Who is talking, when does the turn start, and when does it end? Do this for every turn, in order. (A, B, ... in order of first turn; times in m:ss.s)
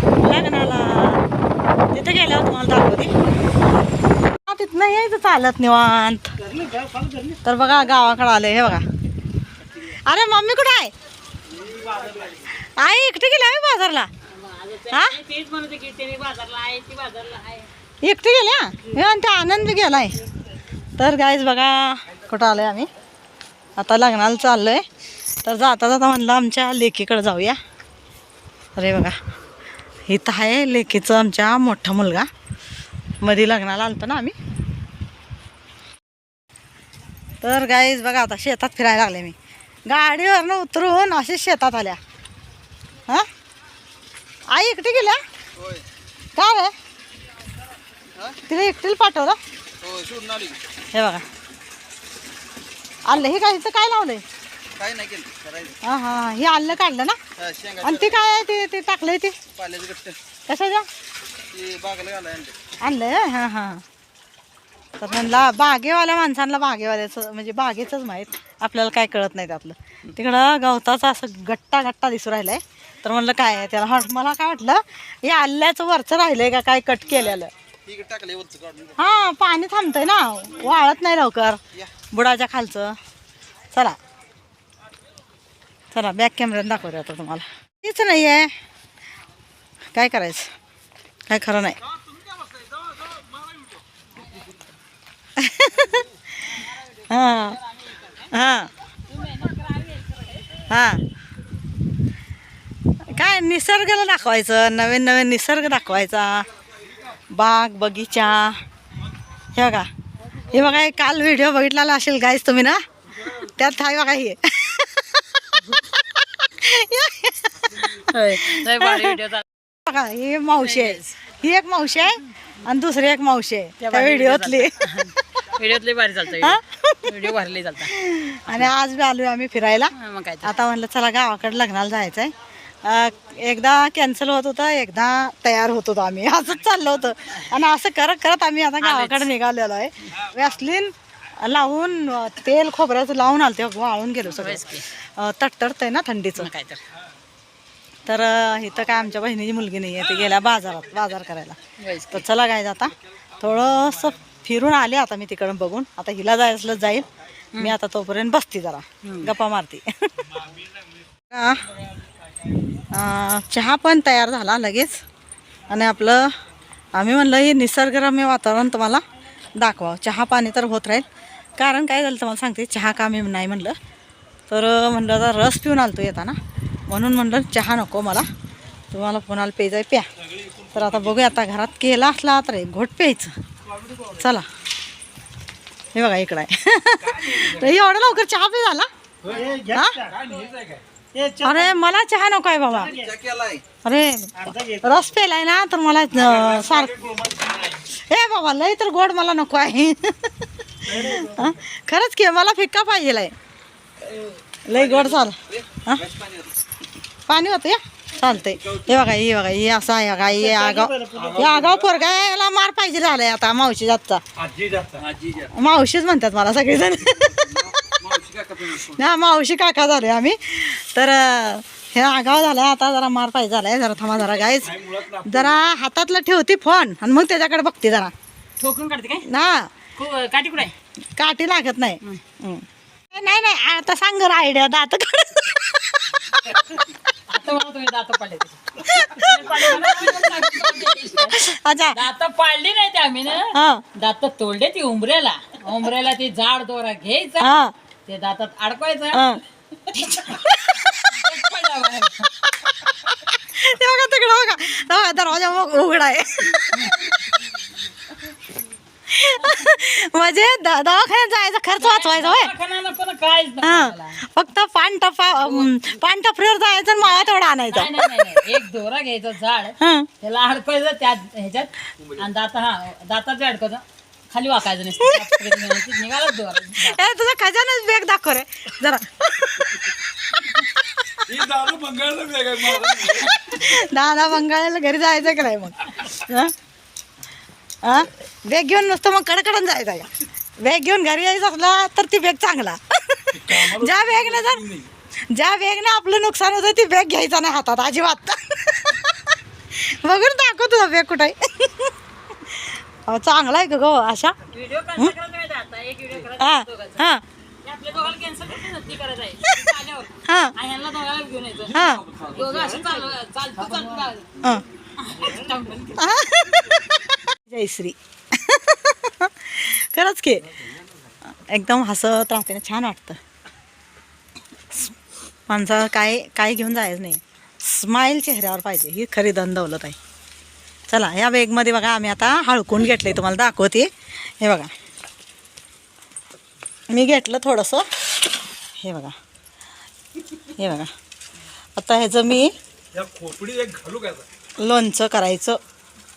0:00.2-0:01.2 A
0:01.9-0:03.1 A
0:04.4-0:06.3 A
0:06.4-0:07.4 B
0:07.4-0:08.8 A
0:09.8-0:10.9 A
0:11.6-0:12.2 C
0:12.4-0:14.1 A
0:14.3-0:17.7 D
0:14.9-0:15.2 A
0:18.0-0:20.2 A
0:21.0-0:22.9 A
0:23.8-0:24.8 A
0:25.4-0:27.6 A
0:28.8-0:29.2 A
0:30.0-0:32.3 A
0:33.2-0:34.4 A
0:37.4-0:42.0 A
0:44.5-0:45.2 A
0:46.4-0:46.7 A
0:48.4-0:49.4 A
0:49.8-0:50.6 B
0:50.9-0:51.2 A
0:53.1-0:54.2 A
0:54.8-0:55.7 B
0:55.8-0:57.2 A
0:57.4-0:57.8 B
0:57.7-0:59.4 A
0:59.6-1:00.2 B
1:00.5-1:00.8 A
1:01.5-1:02.5 B
1:02.8-1:03.8 A
1:05.0-1:17.5 A
1:17.9-1:18.8 B
1:18.9-1:21.6 A
1:22.1-1:23.0 A
1:25.9-1:28.5 A
1:29.9-1:30.5 A
1:31.3-1:31.8 A
1:35.4-1:37.6 A
1:36.5-1:38.3 D
1:38.3-1:38.7 A
1:39.0-1:40.6 D
1:40.7-1:41.0 A
1:43.0-1:46.5 A
1:47.3-1:48.6 A
1:49.5-1:49.9 A
1:50.5-1:59.2 A
1:57.9-1:59.4 D
1:59.8-2:05.4 A
2:00.6-2:01.2 D
2:03.8-2:08.7 D
2:06.3-2:07.3 A
2:07.8-2:26.5 A
2:09.9-2:10.5 D
2:18.8-2:19.3 D
2:24.3-2:24.9 D
2:26.4-2:26.8 D
2:28.0-2:31.6 A
2:31.8-2:32.2 D
2:32.1-2:40.3 A
2:39.0-2:39.3 D
2:40.3-2:40.7 C
2:41.3-2:41.6 A
2:42.9-2:45.0 A
2:45.7-2:46.4 A
2:46.9-2:49.0 A
2:49.6-2:53.8 A
2:54.5-2:56.4 A
2:56.9-2:58.3 A
2:58.9-3:00.1 A
3:00.2-3:01.2 C
3:00.7-3:03.3 A
3:04.1-3:04.5 A
3:05.9-3:08.9 A
3:07.0-3:07.8 C
3:09.2-3:10.8 C
3:09.4-3:10.1 B
3:09.7-3:10.0 A
3:11.1-3:11.7 B
3:11.4-3:13.0 A
3:12.9-3:13.6 B
3:13.8-3:16.9 A
3:14.5-3:14.8 B
3:16.2-3:17.8 C
3:18.0-3:23.3 A
3:20.9-3:21.3 B
3:24.6-3:26.1 A
3:24.7-3:25.0 C
3:26.0-3:26.4 C
3:27.3-3:34.2 A
3:28.6-3:28.9 C
3:30.5-3:31.3 B
3:31.1-3:32.0 C
3:34.4-3:35.5 C
3:35.4-3:38.1 A
3:38.0-3:38.8 C
3:38.7-3:48.1 A
3:44.5-3:45.6 C
3:48.6-3:49.2 D
3:49.2-3:49.7 A
3:50.0-3:50.7 D
3:51.1-3:56.6 A
3:57.3-4:07.5 D
3:58.8-4:00.0 A
4:01.3-4:02.0 A
4:03.5-4:03.8 A
4:07.4-4:07.7 A
4:08.1-4:12.3 D
4:09.1-4:09.4 A
4:10.1-4:11.3 A
4:12.4-4:17.3 A
4:16.7-4:16.9 D
4:19.1-4:22.5 A
4:19.4-4:19.6 D
4:21.7-4:24.2 D
4:23.6-4:28.4 A
4:25.4-4:26.0 D
4:27.0-4:37.0 D
4:29.8-4:30.1 A
4:35.0-4:35.7 A
4:36.8-4:41.3 A
4:41.2-4:43.5 C
4:42.7-4:46.5 A
4:47.8-4:50.1 A
4:50.6-4:54.6 A
4:53.3-4:54.9 C
4:55.3-5:04.4 A
5:04.5-5:07.1 D
5:06.4-5:07.2 A
5:07.6-5:14.3 D
5:10.2-5:10.6 A
5:11.7-5:12.0 A
5:11.9-5:12.7 C
5:15.0-5:16.0 D
5:16.0-5:20.6 A
5:21.2-5:23.2 A
5:25.5-5:30.0 A
5:30.9-5:34.7 A
5:36.9-5:38.2 A
5:38.8-5:39.2 A
5:40.5-5:40.9 A
5:41.8-5:42.5 A
5:42.9-5:44.2 C
5:44.6-5:45.6 A